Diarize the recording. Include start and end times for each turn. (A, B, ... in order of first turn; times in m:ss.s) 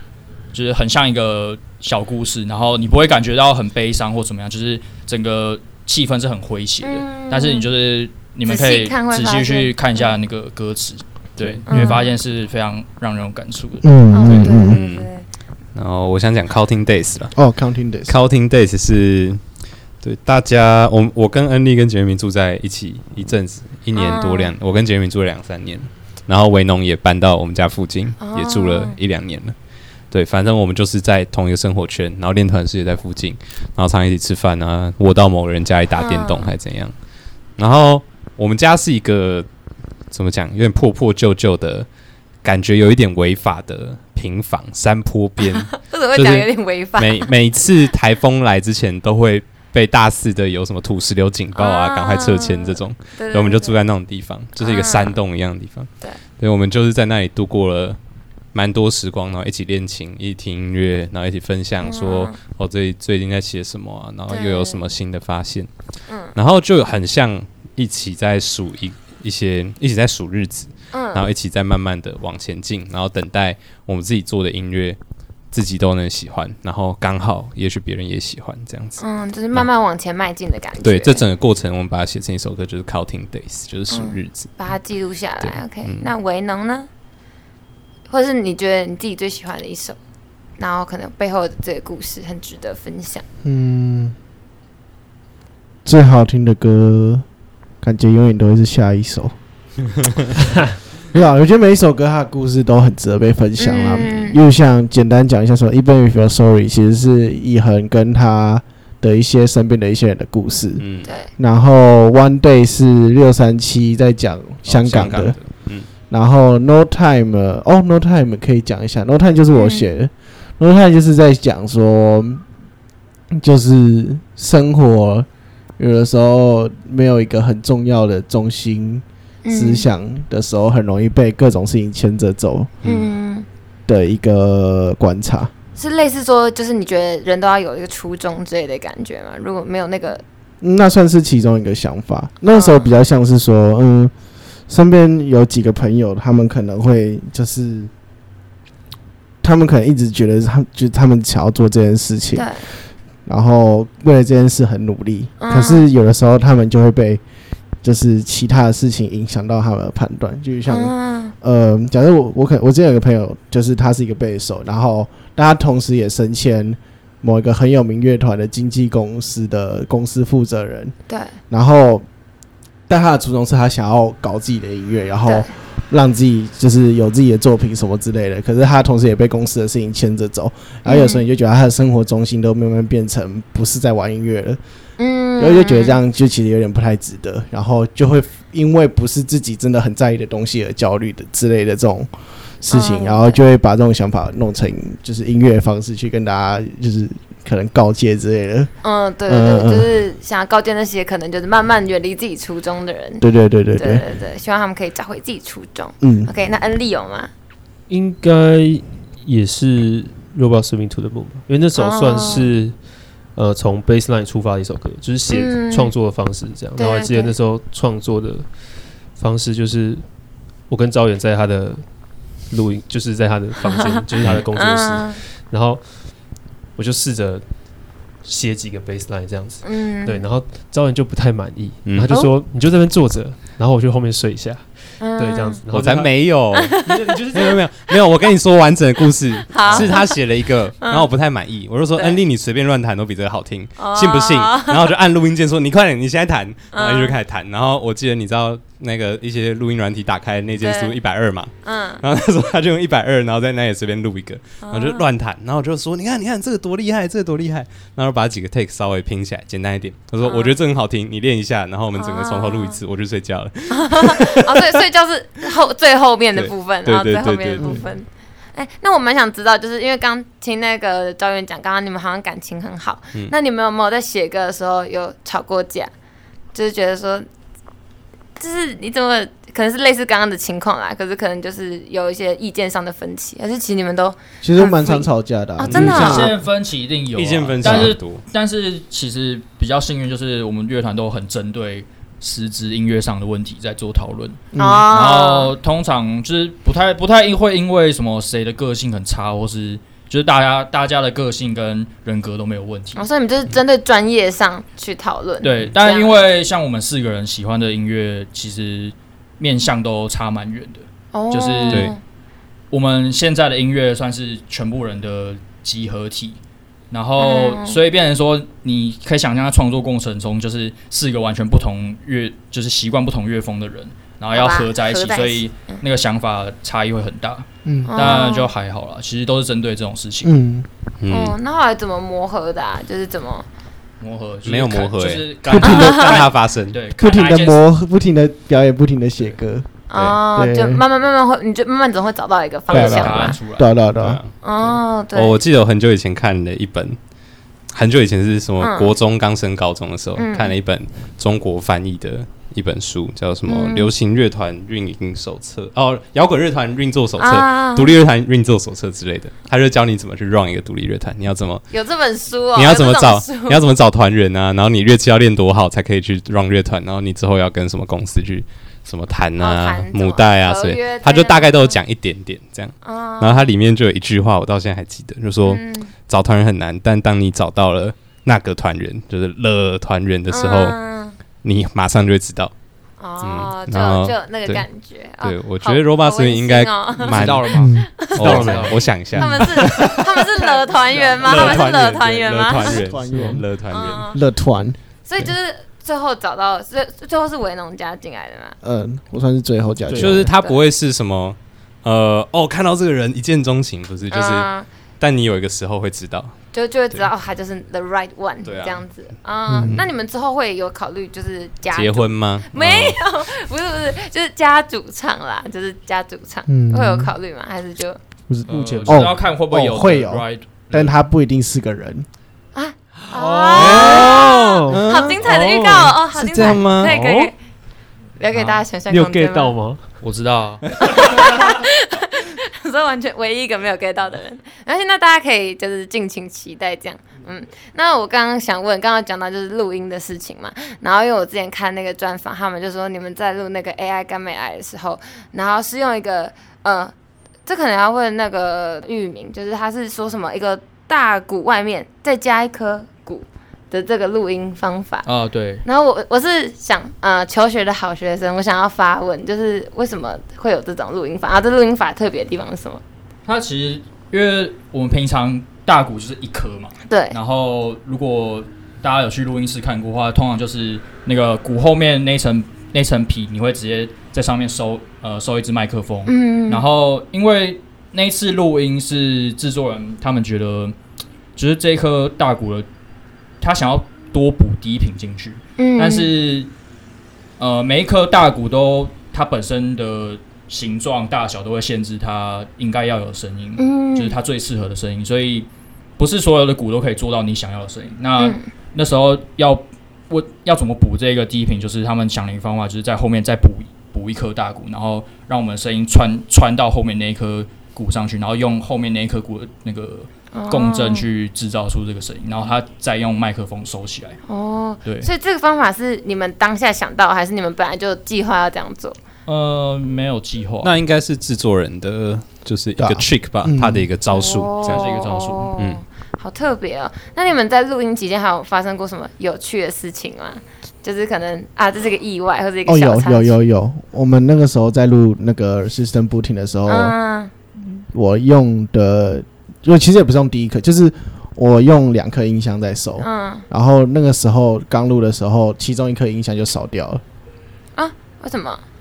0:00.5-0:13.9 A
0:06.8-0:07.7 B
0:08.5-0:10.1 B
0:11.4-0:11.6 C
0:11.7-0:12.1 B
0:11.7-0:12.0 D
0:13.8-0:14.8 D
0:14.1-0:15.3 B
0:14.3-0:15.1 E
0:15.7-0:17.4 E
0:17.4-0:18.2 D
0:18.1-0:19.4 E
0:20.0-0:29.6 E
0:24.0-0:24.5 B
0:28.2-0:29.0 B
0:30.1-0:37.0 E
0:36.0-0:36.5 B
0:37.6-0:39.5 E
0:40.1-0:41.9 E
0:42.4-0:58.0 E
0:45.5-0:47.3 B
0:51.6-0:53.8 B
0:54.6-0:55.2 B
0:58.5-1:05.7 E
1:01.8-1:02.4 B
1:04.3-1:04.8 B
1:06.1-1:06.4 B
1:06.3-1:15.0 E
1:10.9-1:11.3 B
1:15.5-1:19.7 E
1:19.0-1:21.2 B
1:20.8-1:24.6 E
1:23.9-1:26.9 B
1:25.4-1:26.1 E
1:28.1-1:30.0 B
1:30.6-1:33.2 B
1:33.4-1:34.2 D
1:35.8-1:37.2 D
1:37.8-1:39.4 D
1:41.1-2:02.4 D
1:43.6-1:44.4 B
1:50.8-1:51.1 E
1:54.7-1:55.9 E
1:59.5-1:59.9 B
2:03.3-2:05.3 D
2:05.8-2:12.7 D
2:09.4-2:09.9 B
2:12.8-2:13.1 E
2:12.8-2:13.5 B
2:13.9-2:15.5 D
2:15.8-2:20.2 B
2:20.6-2:24.1 D
2:22.5-2:22.9 B
2:24.7-2:27.9 D
2:29.4-2:37.2 D
2:32.4-2:32.7 B
2:35.4-2:35.9 B
2:37.8-2:50.9 D
2:40.7-2:41.3 B
2:51.1-2:51.4 B
2:51.5-2:52.0 D
2:52.9-3:04.6 D
2:55.3-2:55.5 B
3:00.9-3:01.2 B
3:05.0-3:06.0 B
3:05.4-3:18.7 D
3:12.7-3:13.4 B
3:18.8-3:27.3 B
3:19.3-3:19.9 D
3:23.2-3:24.0 D
3:26.0-3:26.3 D
3:27.9-3:57.6 C
3:31.8-3:32.5 B
3:35.3-3:36.0 B
3:36.7-3:37.3 B
3:43.6-3:45.2 B
3:44.2-3:44.5 E
3:49.6-3:50.3 B
3:51.8-3:52.2 E
3:55.0-3:55.6 B
3:55.7-3:56.8 E
3:56.5-3:57.5 B
3:57.3-4:24.7 E
3:59.5-4:00.2 B
4:00.8-4:01.1 B
4:02.0-4:02.2 B
4:03.8-4:04.9 B
4:06.7-4:07.2 B
4:10.6-4:11.0 B
4:11.6-4:12.0 B
4:14.6-4:15.1 B
4:20.2-4:20.6 B
4:22.0-4:22.8 B
4:23.7-4:35.9 B
4:26.4-4:27.8 E
4:27.6-4:27.9 D
4:36.5-4:37.3 B
4:38.4-4:46.3 B
4:44.4-4:46.4 D
4:45.6-4:46.2 E
4:45.8-5:03.0 A
4:47.2-4:48.2 E
4:47.6-4:48.0 D
4:54.5-4:54.9 D
4:54.6-4:55.5 B
5:03.0-5:06.2 B
5:05.4-5:12.0 A
5:11.1-5:12.0 B
5:12.7-5:16.4 A
5:16.9-5:30.4 A
5:17.2-5:17.8 B
5:24.3-5:25.8 B
5:27.6-5:28.0 D
5:27.9-5:28.5 B
5:30.2-5:30.7 D
5:31.0-5:31.4 E
5:31.1-5:33.5 B
5:34.0-5:37.6 A
5:34.4-5:36.8 E
5:35.5-5:36.2 D
5:35.6-5:36.0 B
5:37.0-5:39.7 D
5:39.9-5:43.4 B
5:40.4-5:40.8 D
5:42.7-5:43.8 A
5:42.7-5:44.2 D
5:44.0-5:47.0 E
5:44.4-5:45.4 B
5:47.7-6:01.7 E
5:48.6-5:48.9 B
5:50.2-5:50.5 B
5:53.5-5:53.9 B
5:57.2-5:58.0 B
6:01.7-6:03.6 B
6:02.6-6:20.8 E
6:09.4-6:11.8 B
6:12.8-6:13.5 B
6:15.4-6:15.9 B
6:20.3-6:21.2 B
6:21.4-6:22.5 E
6:23.0-6:28.4 B
6:23.2-6:24.7 E
6:25.2-6:30.6 E
6:27.1-6:28.9 A
6:27.5-6:27.9 D
6:28.2-6:29.4 C
6:29.2-6:32.8 B
6:31.0-6:31.7 D
6:31.2-6:34.1 E
6:32.5-6:33.4 D
6:33.1-6:33.4 C
6:33.7-6:34.2 B
6:34.1-6:34.8 D
6:35.0-6:38.6 B
6:38.6-6:40.3 D
6:39.9-6:40.3 C
6:40.0-6:46.4 E
6:40.3-6:40.6 B
6:44.1-6:44.7 B
6:46.5-6:58.0 B
6:48.4-6:48.8 E
6:49.5-6:49.8 D
6:51.7-6:53.0 E
6:56.5-6:57.1 D
6:58.3-7:02.1 D
6:58.5-6:59.2 C
6:58.5-7:01.0 A
7:02.6-7:07.3 B
7:03.0-7:06.0 C
7:03.5-7:05.3 E
7:05.8-7:07.0 E
7:06.8-7:07.3 C
7:08.2-7:09.6 B
7:08.4-7:10.0 C
7:10.0-7:10.7 A
7:10.8-7:26.9 B
7:27.5-7:35.1 B
7:35.0-7:35.7 A
7:35.6-7:42.8 B
7:43.3-8:00.8 A
7:46.9-7:47.2 B
7:56.1-7:56.6 B
8:01.4-8:02.7 A
8:03.4-8:06.5 A
8:05.6-8:06.1 B
8:07.4-8:34.2 A
8:13.6-8:14.2 B
8:18.2-8:18.4 B
8:30.3-8:31.0 B
8:34.3-8:39.0 B
8:34.8-8:35.1 A
8:39.3-8:40.8 A
8:40.6-8:44.9 E
8:42.8-8:43.9 D
8:44.1-8:53.4 B
8:44.6-8:45.5 A
8:45.6-8:45.8 E
8:52.7-8:57.0 D
8:56.7-8:57.3 B
8:57.6-9:07.0 D
9:03.0-9:03.4 B
9:07.8-9:08.6 B